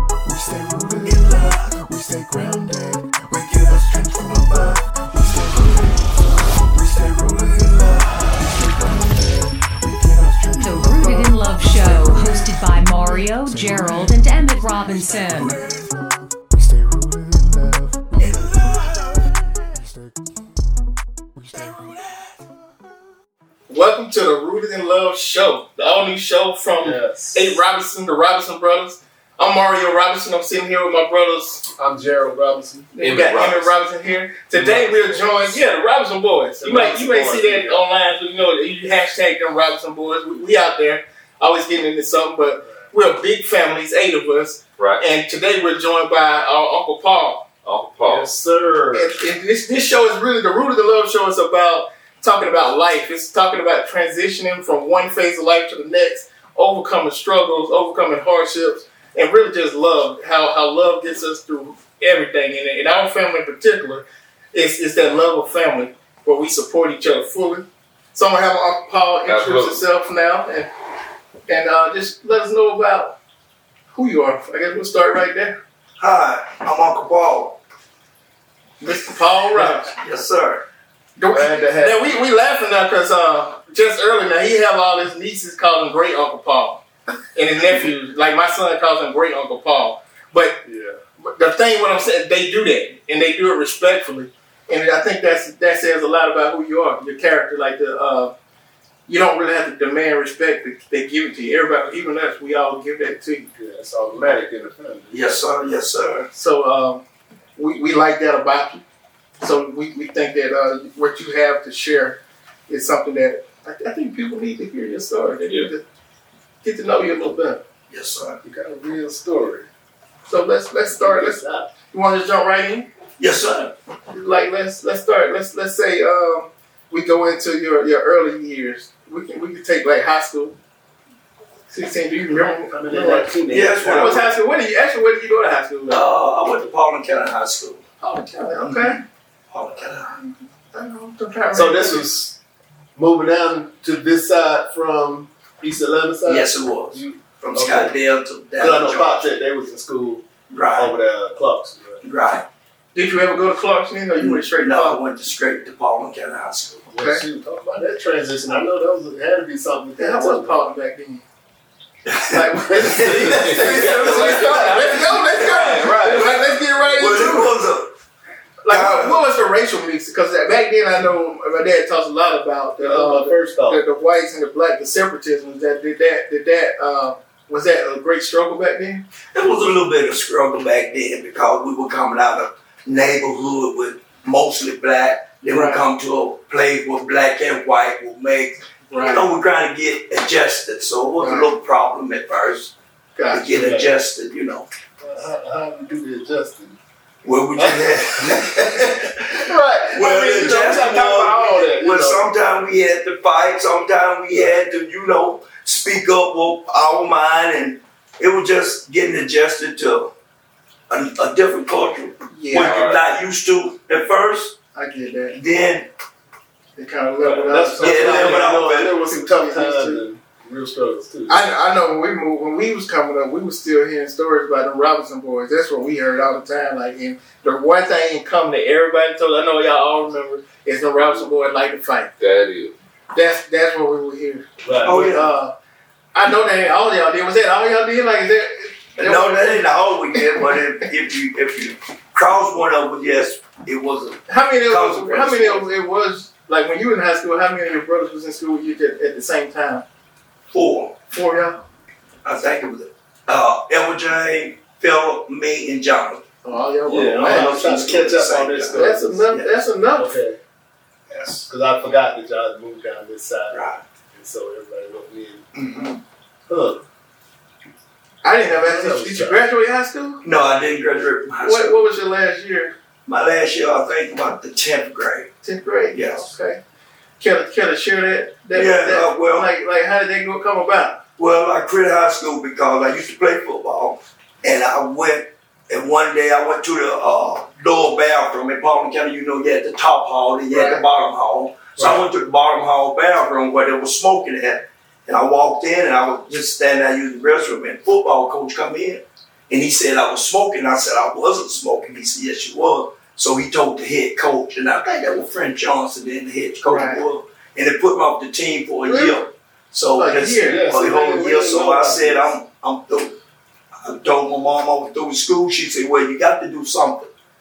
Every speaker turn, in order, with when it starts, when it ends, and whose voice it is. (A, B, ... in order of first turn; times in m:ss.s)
0:00.2-0:06.1 A
0:06.7-0:12.5 A
0:10.5-0:15.6 B
0:13.2-0:14.2 A
0:15.2-0:19.2 A
0:21.4-0:22.1 A
0:23.7-0:31.6 C
0:26.8-0:27.6 D
0:31.7-0:32.9 D
0:32.9-0:47.4 C
0:33.0-0:33.7 E
0:34.5-0:34.9 E
0:36.6-0:37.8 D
0:44.8-0:45.0 E
0:47.6-0:48.3 E
0:48.0-0:49.1 D
0:48.9-1:10.7 C
1:09.2-1:09.8 E
1:11.5-1:13.2 C
1:13.9-1:15.6 C
1:16.0-1:17.6 F
1:18.8-1:19.9 C
1:19.9-1:20.6 F
1:21.2-1:26.8 C
1:21.3-1:22.0 D
1:27.3-1:30.6 C
1:30.6-1:31.0 D
1:31.2-1:38.3 C
1:39.1-1:43.5 C
1:43.6-1:45.4 D
1:45.1-1:46.3 F
1:46.3-1:47.0 C
1:47.6-1:48.8 C
1:49.4-1:55.8 C
1:56.6-1:57.6 C
1:57.9-1:58.4 F
1:58.4-1:59.7 D
2:00.2-2:02.9 C
2:00.9-2:01.7 D
2:03.2-2:03.7 F
2:04.1-2:10.6 C
2:11.7-2:16.0 C
2:12.7-2:14.1 D
2:13.5-2:14.3 F
2:15.9-2:17.8 F
2:18.0-2:19.0 C
2:18.6-2:19.0 F
2:19.5-2:20.1 F
2:20.1-2:22.1 C
2:21.5-2:22.4 D
2:23.0-2:27.9 D
2:26.2-2:29.3 F
2:28.6-2:32.0 D
2:30.5-2:30.9 F
2:32.0-2:32.4 F
2:32.9-2:35.0 C
2:34.2-2:36.9 F
2:36.9-2:40.6 D
2:37.0-2:37.2 C
2:40.0-2:41.2 C
2:42.1-2:46.2 F
2:42.3-2:47.6 C
2:42.9-2:46.7 D
2:47.0-2:47.9 F
2:48.6-2:59.0 C
2:48.7-2:49.2 F
2:52.8-2:53.8 D
2:59.3-3:12.7 F
3:05.5-3:05.8 C
3:08.9-3:09.3 C
3:11.2-3:11.5 C
3:13.2-3:13.5 C
3:13.3-3:14.7 F
3:13.4-3:13.9 D
3:15.0-3:16.8 D
3:17.2-3:19.1 F
3:17.5-3:22.2 D
3:19.9-3:30.1 F
3:30.9-3:34.6 F
3:32.3-3:32.9 C
3:32.6-3:33.0 E
3:34.7-3:35.4 C
3:35.3-3:35.9 F
3:36.8-3:40.0 C
3:37.2-3:41.4 D
3:37.8-3:38.9 F
3:41.3-3:52.1 C
3:52.2-3:52.7 E
3:53.1-3:55.5 C
3:54.6-3:55.0 D
3:54.8-3:55.3 F
3:56.1-4:00.5 C
3:59.0-4:05.7 F
4:04.3-4:09.8 C
4:10.5-4:10.9 F
4:11.1-4:11.6 C
4:12.2-4:16.2 F
4:16.4-4:17.6 C
4:16.8-4:19.2 D
4:17.2-4:19.6 F
4:18.7-4:20.1 C
4:19.9-4:20.4 D
4:21.3-4:25.5 D
4:23.5-4:23.8 F
4:25.5-4:26.0 F
4:26.5-4:26.8 D
4:28.2-4:30.2 C
4:28.5-4:29.5 D
4:30.2-4:31.9 F
4:31.4-4:32.7 C
4:33.0-4:35.3 F
4:35.4-4:36.6 C
4:35.9-4:36.3 F
4:37.2-4:41.0 C
4:38.5-4:39.5 F
4:41.2-5:13.2 F
4:50.5-4:50.8 C
4:51.8-4:52.0 D
5:06.6-5:07.0 C
5:08.8-5:09.2 C
5:10.0-5:10.6 C
5:10.4-5:12.3 D
5:13.8-5:17.1 F